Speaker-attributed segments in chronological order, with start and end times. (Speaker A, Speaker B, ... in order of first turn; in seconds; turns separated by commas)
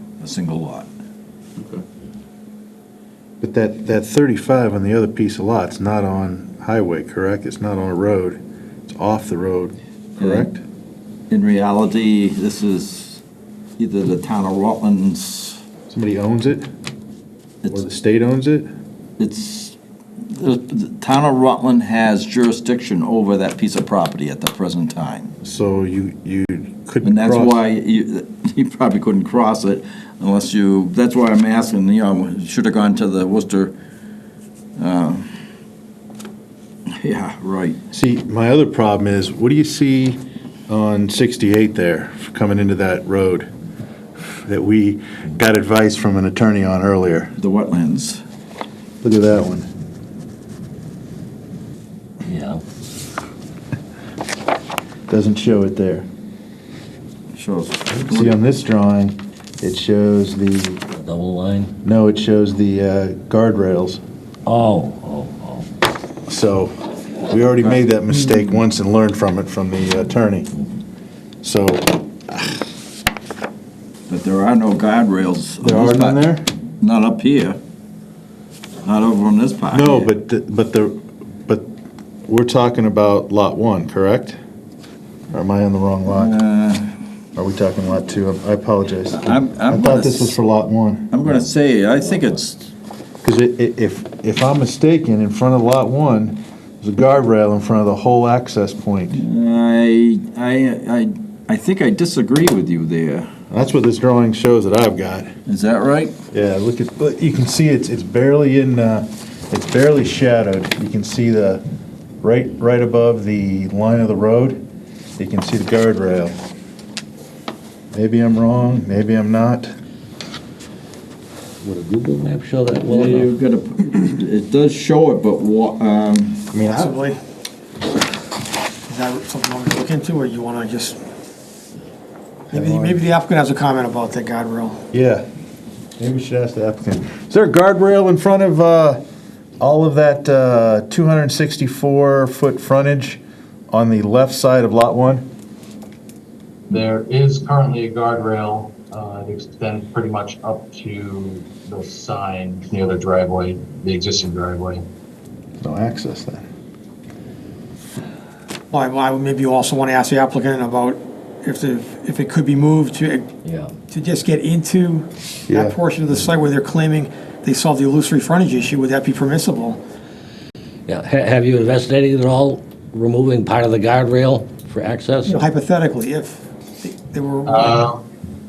Speaker A: 0.2-0.9, Speaker B: 3.4-10.6, Speaker A: 10.2-10.5, Speaker A: 11.3-13.2, Speaker A: 13.8-15.6, Speaker B: 15.9-16.7, Speaker B: 17.7-18.7, Speaker A: 19.2-19.8, Speaker A: 20.3-25.4, Speaker B: 25.4-27.6, Speaker A: 27.0-33.8, Speaker A: 34.8-35.3, Speaker A: 36.9-37.8, Speaker B: 37.9-43.5, Speaker B: 44.5-47.4, Speaker A: 47.4-48.2, Speaker B: 49.0-49.7, Speaker C: 52.2-52.6, Speaker B: 55.1-56.1, Speaker A: 57.3-58.4, Speaker B: 58.1-60.8, Speaker C: 60.9-61.8, Speaker B: 61.8-64.0, Speaker C: 64.5-65.7, Speaker B: 66.3-66.8, Speaker B: 67.3-70.5, Speaker B: 71.4-72.7, Speaker A: 74.1-76.2, Speaker B: 75.6-76.5, Speaker A: 76.8-77.6, Speaker A: 78.8-80.1, Speaker B: 79.7-81.7, Speaker B: 82.3-84.4, Speaker B: 85.3-86.4, Speaker A: 86.1-87.0, Speaker B: 87.4-91.1, Speaker A: 89.1-90.4, Speaker A: 91.1-92.7, Speaker B: 93.2-99.2, Speaker A: 99.1-103.3, Speaker B: 103.5-105.3, Speaker A: 105.5-106.2, Speaker B: 106.3-111.6, Speaker B: 112.2-114.6, Speaker B: 115.2-116.4, Speaker B: 117.9-119.7, Speaker C: 121.6-123.3, Speaker A: 122.8-126.6, Speaker B: 126.5-126.9, Speaker D: 126.7-127.2, Speaker D: 128.9-131.0, Speaker D: 132.5-134.8, Speaker B: 132.5-133.0, Speaker B: 134.9-135.3, Speaker B: 136.0-139.0, Speaker B: 139.6-145.3, Speaker E: 146.7-154.8, Speaker B: 155.6-156.4, Speaker D: 158.7-163.3, Speaker C: 163.4-163.7, Speaker D: 163.9-169.8, Speaker B: 165.5-165.8, Speaker C: 170.9-175.4, Speaker D: 175.3-177.8, Speaker E: 177.5-178.0